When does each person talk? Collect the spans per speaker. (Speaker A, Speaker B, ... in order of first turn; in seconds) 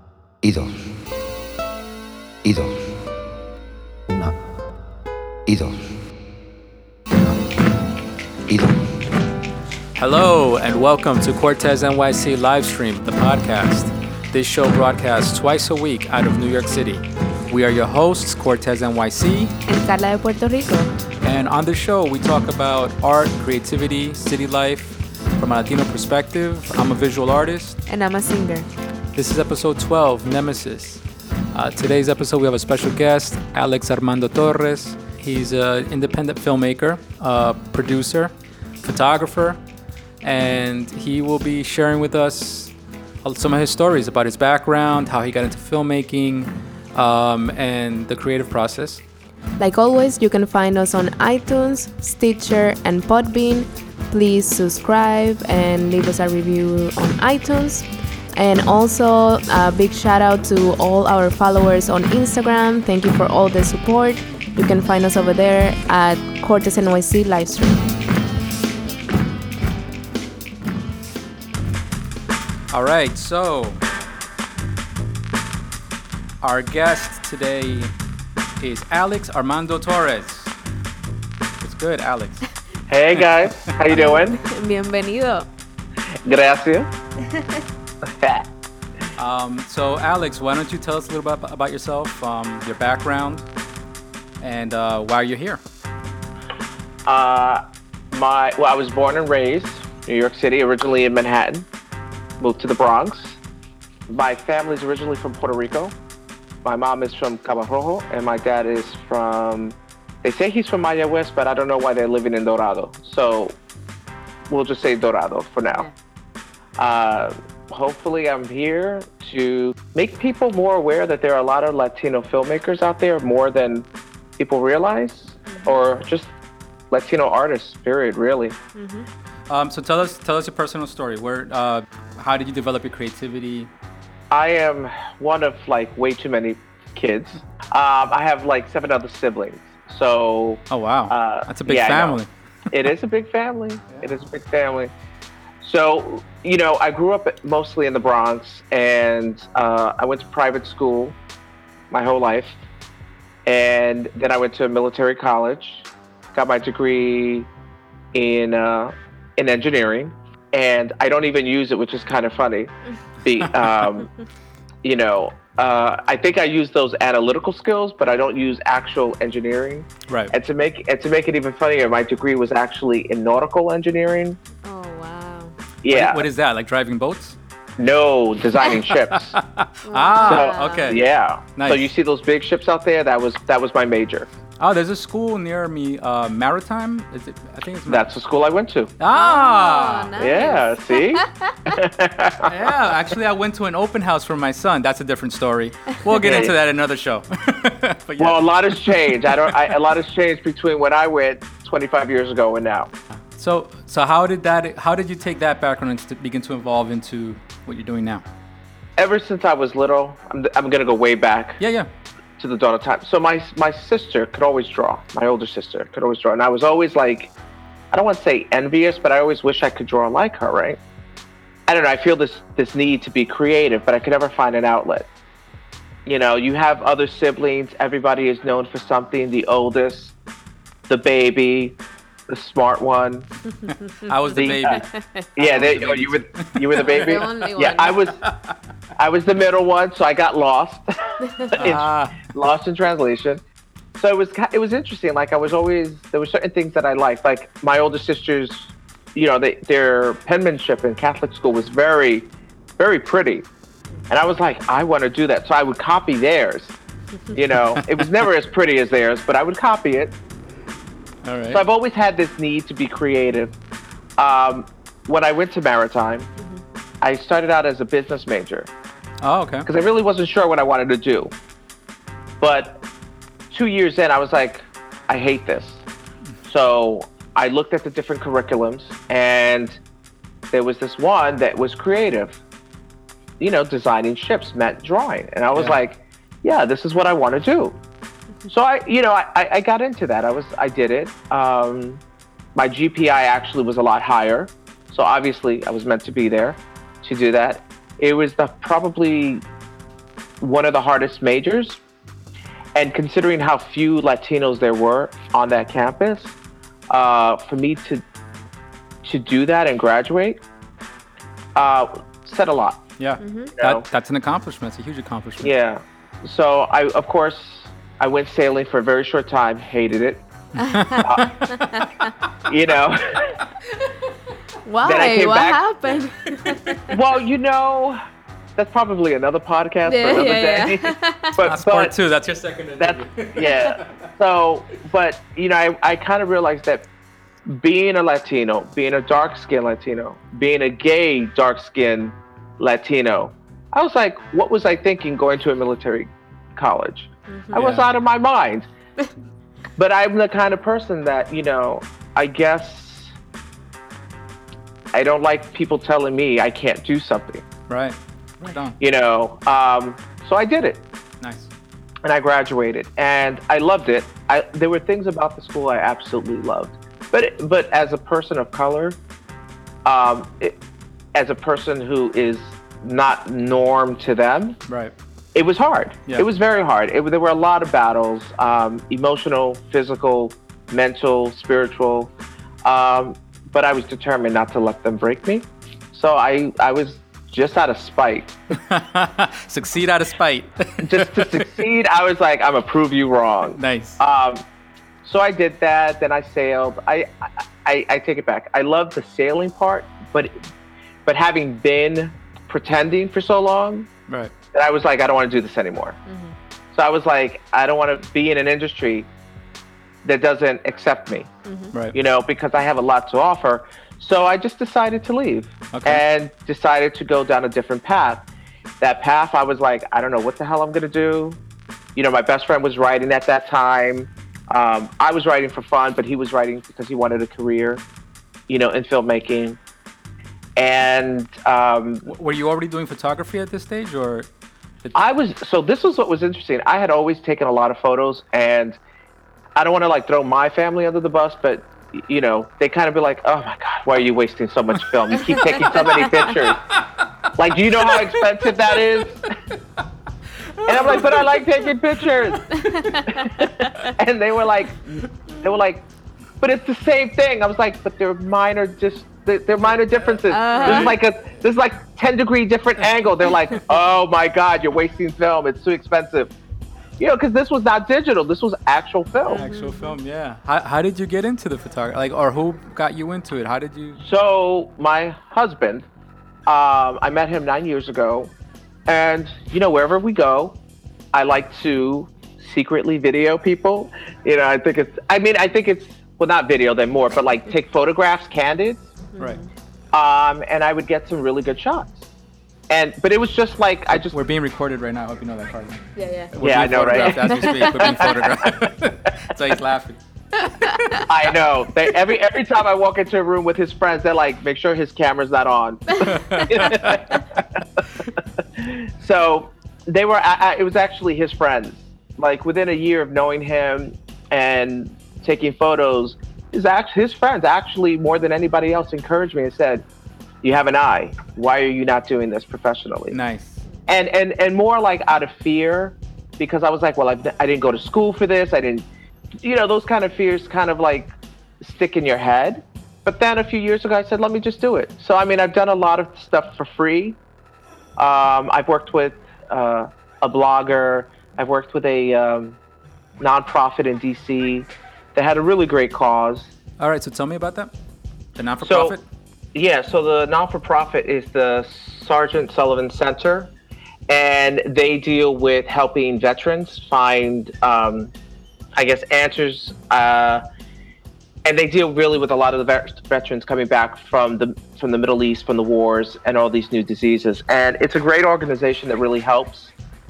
Speaker A: 0.4-0.9, 2.5-3.0, 4.1-4.3, 5.5-6.0, 8.5-8.9
Speaker B: 10.0-19.6, 21.2-27.8, 29.1-38.3, 38.8-39.6, 40.2-49.0, 72.7-73.8, 76.4-77.9, 78.6-80.5, 81.6-82.5, 83.2-83.7, 89.2-93.5, 94.4-95.6, 129.5-133.7, 140.7-142.3, 170.1-170.3, 175.9-177.4, 178.7-181.0, 181.6-181.9, 184.6-188.1, 189.0-190.1, 192.4-199.7, 203.2-208.2, 211.6-211.9, 233.9-237.3, 238.2-238.5, 241.6-242.2, 261.2-261.6, 269.2-269.7, 285.5-285.8, 313.0-315.5, 320.6-321.9, 331.4-333.9, 347.5-347.9, 357.7-358.8, 361.2-361.5, 374.7-374.9, 388.6-391.5, 393.6-394.0, 415.7-416.0, 432.1-434.3, 445.1-448.4, 450.6-451.6, 452.4-452.7, 460.5-461.0, 469.3-474.0, 493.9-501.0, 506.0-507.0, 523.1-523.6, 546.8-547.7, 548.4-549.0
Speaker C: 19.7-20.9, 27.9-28.7, 49.6-67.9, 83.9-85.5, 87.3-87.6, 125.5-125.8, 128.8-129.1, 174.6-175.5, 179.9-181.0, 189.1-191.7, 236.8-238.0, 313.2-313.5, 320.6-321.0, 324.6-326.9, 329.9-331.4, 347.3-347.6, 406.1-406.3, 411.4-411.7, 452.6-453.5, 460.3-461.0, 469.3-470.0, 489.1-489.5, 496.0-496.3, 496.9-498.1, 500.4-500.9
Speaker D: 82.9-84.4, 86.2-86.9, 88.0-88.5, 97.1-101.7, 102.4-103.4, 104.1-106.0, 106.6-113.6, 114.5-115.9, 116.8-123.9, 124.4-126.3, 126.9-128.6, 134.3-142.2, 142.7-144.9, 145.6-151.2, 151.9-152.6, 153.5-157.5, 158.1-164.1, 164.8-174.4, 175.8-176.2, 177.8-179.4, 180.2-184.3, 187.9-188.9, 190.2-192.5, 196.2-196.5, 198.2-202.9, 209.0-211.6, 212.4-217.3, 217.9-220.8, 221.7-225.1, 226.1-230.2, 230.9-233.3, 234.3-234.8, 235.4-238.2, 239.0-243.4, 244.0-253.5, 254.1-256.8, 257.3-260.1, 261.5-263.5, 264.2-266.3, 267.0-268.7, 269.6-271.3, 272.4-272.8, 273.5-275.8, 276.5-279.8, 280.5-282.4, 283.4-287.8, 288.5-292.0, 292.6-299.4, 300.4-301.8, 302.8-306.4, 306.9-308.0, 309.0-310.4, 311.6-312.8, 313.6-313.9, 315.4-320.2, 321.0-321.4, 322.4-323.4, 324.8-325.6, 326.9-328.0, 328.6-331.9, 332.8-336.9, 337.5-348.7, 349.8-353.1, 354.9-357.4, 358.8-360.8, 362.0-369.0, 369.9-370.6, 371.1-374.6, 375.4-382.1, 382.6-388.4, 390.8-394.4, 395.0-400.3, 401.1-403.9, 404.5-406.0, 406.7-409.1, 410.0-411.3, 411.9-418.2, 418.8-421.4, 422.0-427.8, 428.5-429.6, 430.6-432.1, 434.9-438.8, 439.6-446.7, 447.4-449.2, 450.6-452.5, 453.1-455.9, 456.4-466.3, 467.0-469.4, 474.0-475.9, 476.5-478.3, 478.9-480.6, 481.1-488.9, 489.9-492.1, 492.7-494.2, 496.4-498.5, 501.1-507.2, 508.6-519.9, 520.4-523.2, 523.9-528.9, 529.4-531.1, 531.6-537.2, 538.0-542.6, 543.2-546.5, 548.6-549.0, 549.5-553.5, 554.1-558.1, 558.8-560.4, 561.4-569.7